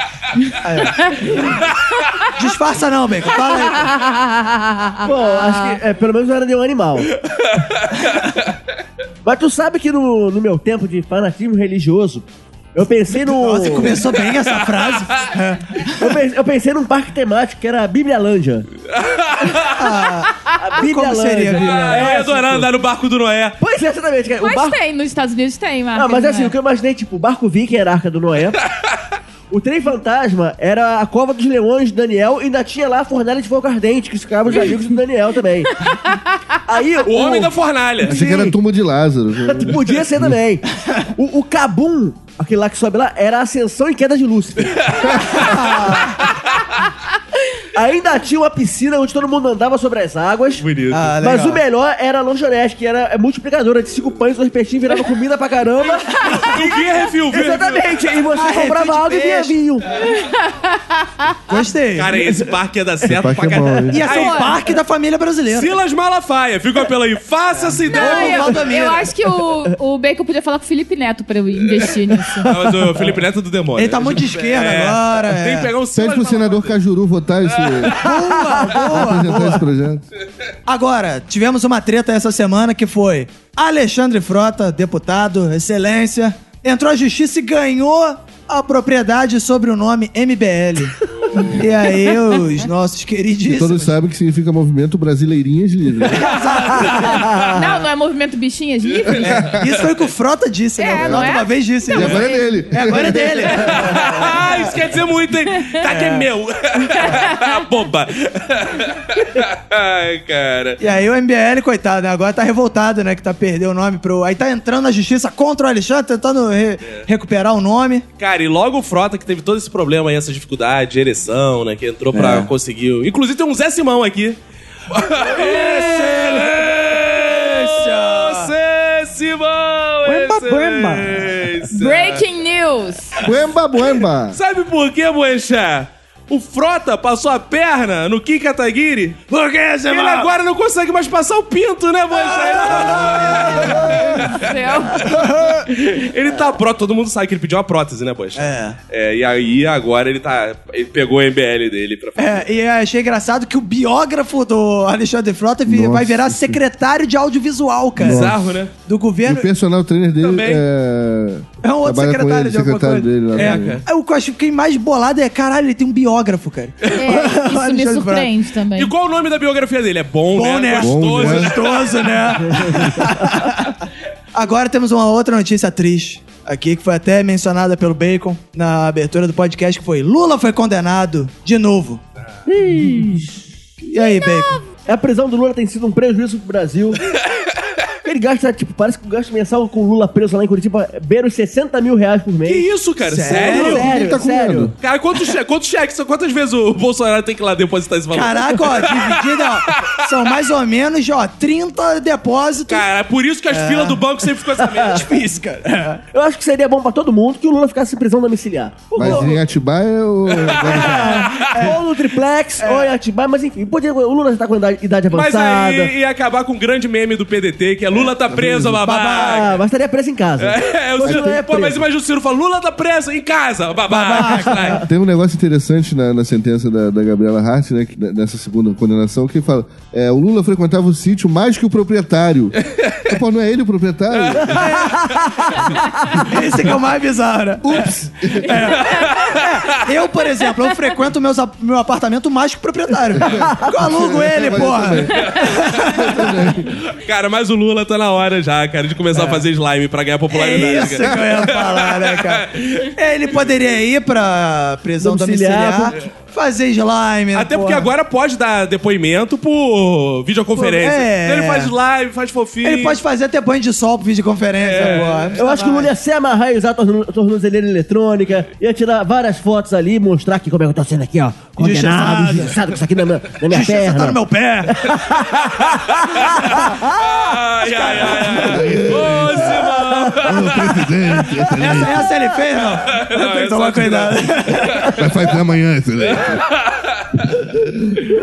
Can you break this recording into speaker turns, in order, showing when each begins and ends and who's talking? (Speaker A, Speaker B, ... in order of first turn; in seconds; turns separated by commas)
Speaker A: 0.6-1.6, Speaker A: 2.3-4.0, Speaker B: 4.0-5.8, Speaker C: 5.0-7.1, Speaker D: 7.3-8.2, Speaker C: 9.2-14.0, Speaker A: 13.1-16.2, Speaker D: 14.2-15.2, Speaker C: 16.0-18.7, Speaker D: 18.9-19.9, Speaker A: 19.7-22.1, Speaker C: 20.5-22.7, Speaker D: 21.5-23.6, Speaker C: 23.6-24.8, Speaker B: 24.4-26.5, Speaker C: 25.9-28.6, Speaker C: 29.5-35.9, Speaker B: 35.9-36.2, Speaker C: 36.6-37.5, Speaker D: 37.0-38.2, Speaker C: 38.0-38.5, Speaker E: 38.0-40.4, Speaker C: 39.5-40.6, Speaker C: 41.1-46.1, Speaker D: 44.8-46.5, Speaker A: 45.4-46.1, Speaker C: 47.7-50.6, Speaker D: 50.6-51.1, Speaker A: 50.9-51.6, Speaker C: 51.2-56.8, Speaker B: 56.2-56.6, Speaker D: 56.3-57.9, Speaker C: 57.3-59.9, Speaker A: 58.3-59.6, Speaker B: 60.0-61.3, Speaker A: 61.5-62.2, Speaker D: 61.9-64.5, Speaker E: 63.1-64.0, Speaker A: 63.9-65.7, Speaker B: 64.1-64.5, Speaker D: 65.5-68.6, Speaker A: 67.5-69.1, Speaker B: 67.9-72.5, Speaker C: 72.4-73.2, Speaker D: 72.4-76.8, Speaker A: 73.8-75.7, Speaker E: 75.9-78.1, Speaker D: 77.5-78.0, Speaker A: 78.0-79.6, Speaker E: 78.6-80.0, Speaker A: 80.7-93.9, Speaker D: 91.1-91.7, Speaker E: 93.4-96.4, Speaker A: 96.1-97.3, Speaker D: 96.8-97.4, Speaker C: 97.3-97.6, Speaker B: 97.5-99.4, Speaker D: 98.9-99.9, Speaker E: 99.2-99.5, Speaker A: 99.4-104.7, Speaker B: 100.8-102.4, Speaker E: 101.0-101.3, Speaker E: 101.9-103.8, Speaker D: 103.6-110.8, Speaker A: 105.8-106.3, Speaker B: 107.0-107.5, Speaker A: 110.8-118.0, Speaker D: 118.2-124.4, Speaker A: 122.1-122.5, Speaker D: 124.9-132.2, Speaker A: 125.2-128.5, Speaker A: 130.0-131.5, Speaker B: 131.7-133.1, Speaker E: 133.2-134.4, Speaker D: 134.3-139.2, Speaker A: 139.3-140.3, Speaker D: 139.9-152.4, Speaker A: 142.2-144.3, Speaker B: 144.3-145.0, Speaker A: 145.0-145.7, Speaker A: 148.3-148.8, Speaker A: 152.2-158.3, Speaker E: 155.7-156.6, Speaker E: 158.0-158.5, Speaker D: 158.0-158.7, Speaker A: 158.8-159.5, Speaker E: 159.2-163.8, Speaker D: 160.2-160.6, Speaker A: 161.6-168.3, Speaker D: 163.3-163.8, Speaker B: 166.9-168.9, Speaker D: 168.8-172.6, Speaker A: 170.3-182.0, Speaker E: 170.8-171.6, Speaker C: 182.5-183.4, Speaker A: 183.8-184.7, Speaker C: 184.8-187.0, Speaker C: 188.0-192.7, Speaker D: 192.4-193.9, Speaker A: 193.0-193.9, Speaker C: 193.3-194.7, Speaker E: 193.6-194.7, Speaker D: 194.8-199.9, Speaker A: 198.1-202.8, Speaker D: 202.7-205.1, Speaker A: 203.5-204.0, Speaker C: 204.7-205.0, Speaker A: 204.9-206.0, Speaker C: 206.1-209.3, Speaker E: 208.9-211.4, Speaker A: 209.0-209.3, Speaker D: 210.4-211.5, Speaker A: 210.7-212.0, Speaker C: 210.9-215.9, Speaker A: 212.6-212.9, Speaker D: 215.1-219.6, Speaker C: 217.9-221.8, Speaker A: 218.8-219.6, Speaker D: 220.4-224.8, Speaker A: 223.9-224.8, Speaker E: 224.8-234.9, Speaker D: 232.7-233.1, Speaker D: 234.1-234.6, Speaker A: 234.5-235.1, Speaker A: 236.2-246.3, Speaker E: 237.6-238.8, Speaker D: 238.8-239.4, Speaker E: 243.1-246.8, Speaker D: 245.2-245.7, Speaker D: 246.6-253.5, Speaker A: 249.1-249.4, Speaker A: 250.3-257.9, Speaker E: 250.9-251.2, Speaker C: 255.0-255.9, Speaker D: 257.3-263.0, Speaker A: 260.5-261.7, Speaker A: 262.6-265.9, Speaker D: 264.6-265.4, Speaker C: 265.4-274.2, Speaker A: 271.6-272.6, Speaker A: 273.4-274.9, Speaker C: 274.8-277.0, Speaker D: 276.2-280.9, Speaker A: 277.6-279.1, Speaker E: 278.4-282.1, Speaker C: 279.7-280.2, Speaker A: 281.6-285.0, Speaker D: 282.9-285.1, Speaker E: 284.9-286.4, Speaker D: 286.0-287.3, Speaker E: 287.5-287.9